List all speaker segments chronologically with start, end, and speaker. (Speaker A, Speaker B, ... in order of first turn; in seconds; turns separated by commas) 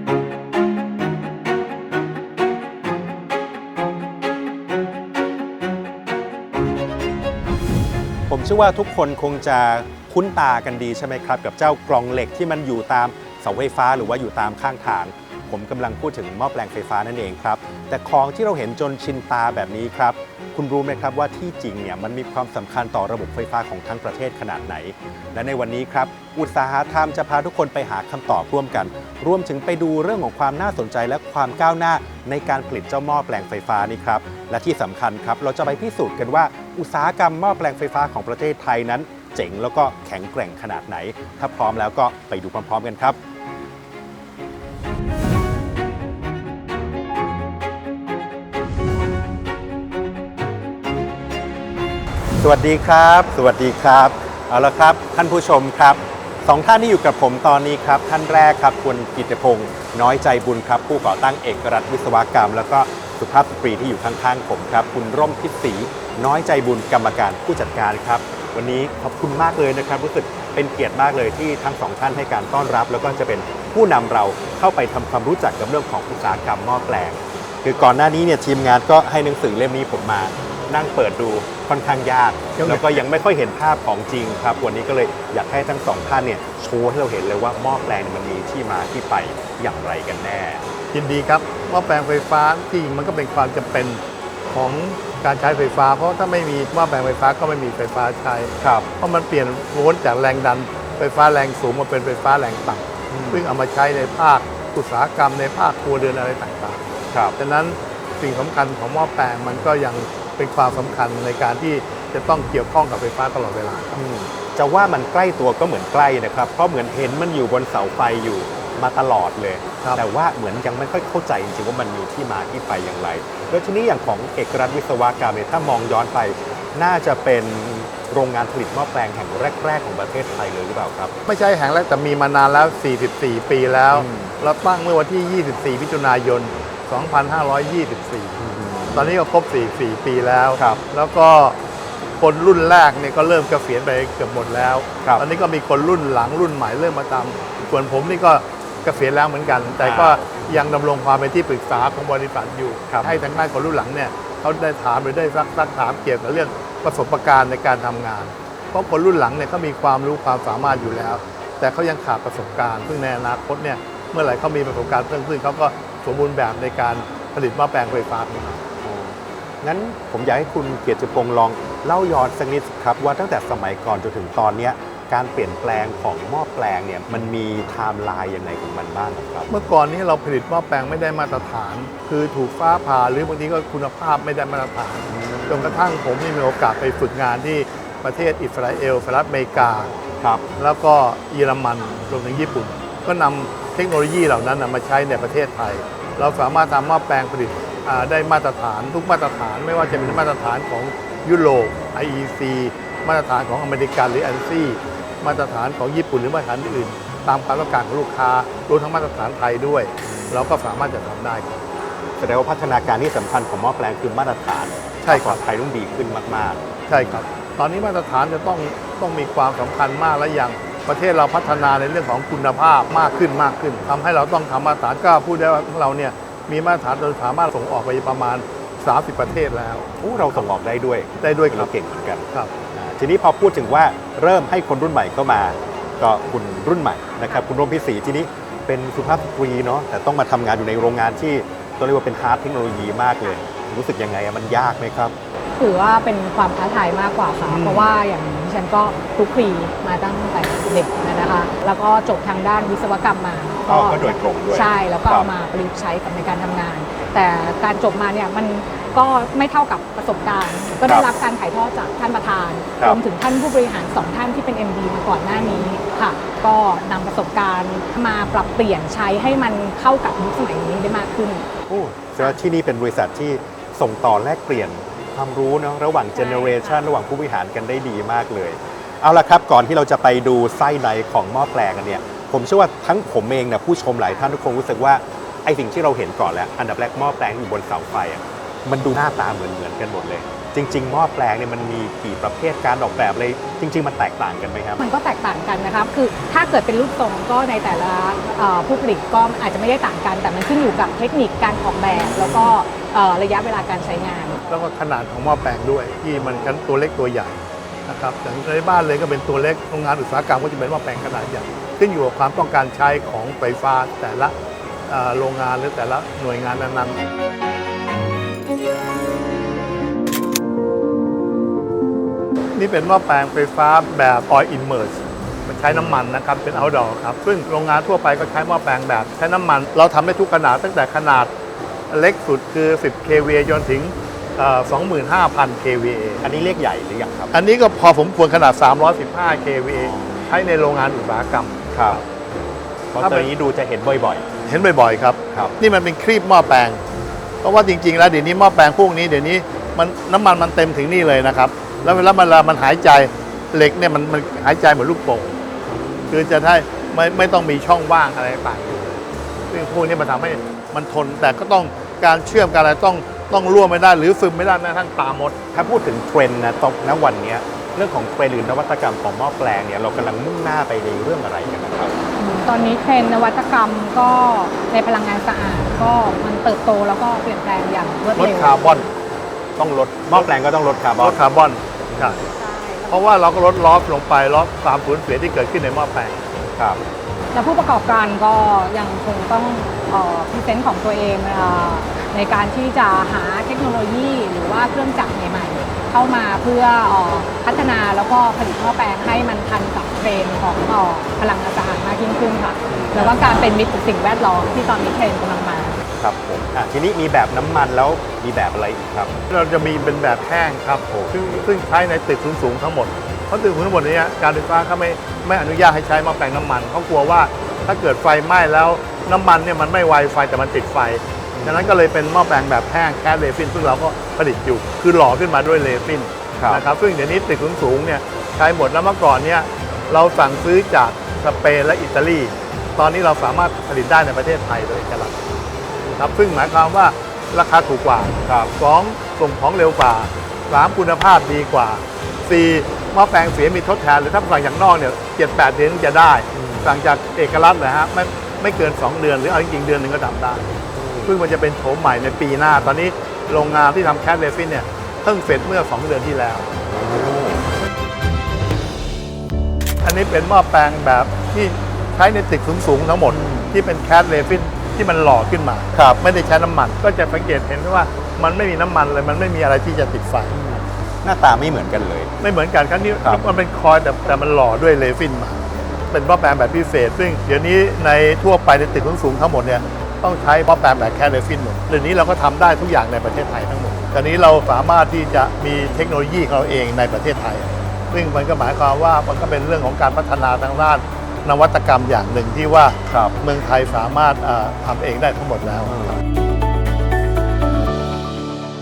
Speaker A: 8.3-43.2, Speaker A: 52.4-90.7, Speaker B: 82.6-83.0, Speaker B: 90.9-94.0, Speaker B: 94.5-114.0, Speaker A: 98.6-98.9, Speaker A: 103.1-103.5, Speaker A: 113.9-131.1, Speaker B: 131.3-141.6, Speaker A: 133.9-134.3, Speaker A: 138.4-139.1, Speaker A: 140.6-140.8, Speaker B: 142.2-168.7, Speaker A: 149.8-150.2, Speaker A: 168.8-179.6, Speaker B: 179.5-189.9, Speaker A: 185.1-185.8, Speaker A: 189.9-190.5, Speaker B: 190.6-211.7, Speaker A: 199.9-200.2, Speaker A: 212.2-217.3, Speaker B: 215.1-215.4, Speaker B: 216.9-230.0, Speaker A: 230.0-245.2, Speaker B: 231.2-231.7, Speaker C: 245.6-271.5, Speaker A: 247.5-247.9, Speaker A: 253.7-255.3, Speaker A: 265.3-265.6, Speaker A: 271.7-294.8, Speaker C: 276.2-276.8, Speaker C: 294.8-304.4, Speaker A: 302.3-302.5, Speaker B: 304.5-314.3, Speaker B: 314.9-317.0, Speaker B: 322.6-331.3, Speaker A: 325.7-326.0, Speaker B: 331.9-336.2, Speaker A: 336.2-337.3, Speaker B: 337.3-342.0, Speaker A: 339.8-340.3, Speaker A: 341.7-342.0, Speaker A: 342.9-344.3, Speaker B: 343.0-343.3, Speaker B: 344.5-346.8, Speaker B: 347.4-355.4, Speaker A: 355.7-356.2, Speaker B: 356.1-365.4, Speaker A: 365.5-372.0, Speaker C: 372.2-378.6, Speaker B: 378.2-378.9, Speaker A: 379.6-381.2, Speaker B: 381.0-382.2, Speaker A: 381.9-382.2, Speaker C: 382.3-383.1, Speaker B: 382.9-386.3, Speaker A: 386.6-386.8, Speaker C: 387.3-405.8, Speaker A: 402.7-403.3, Speaker A: 406.0-409.2, Speaker B: 409.3-456.5, Speaker A: 410.9-411.4, Speaker A: 421.4-421.7, Speaker A: 426.4-426.6, Speaker A: 438.3-438.5, Speaker A: 446.3-446.8, Speaker A: 450.7-451.1, Speaker A: 456.7-457.4, Speaker B: 459.8-470.4, Speaker A: 463.1-463.5, Speaker A: 465.7-466.0, Speaker A: 470.3-472.1, Speaker B: 472.2-496.0, Speaker A: 492.9-493.2, Speaker A: 495.7-496.0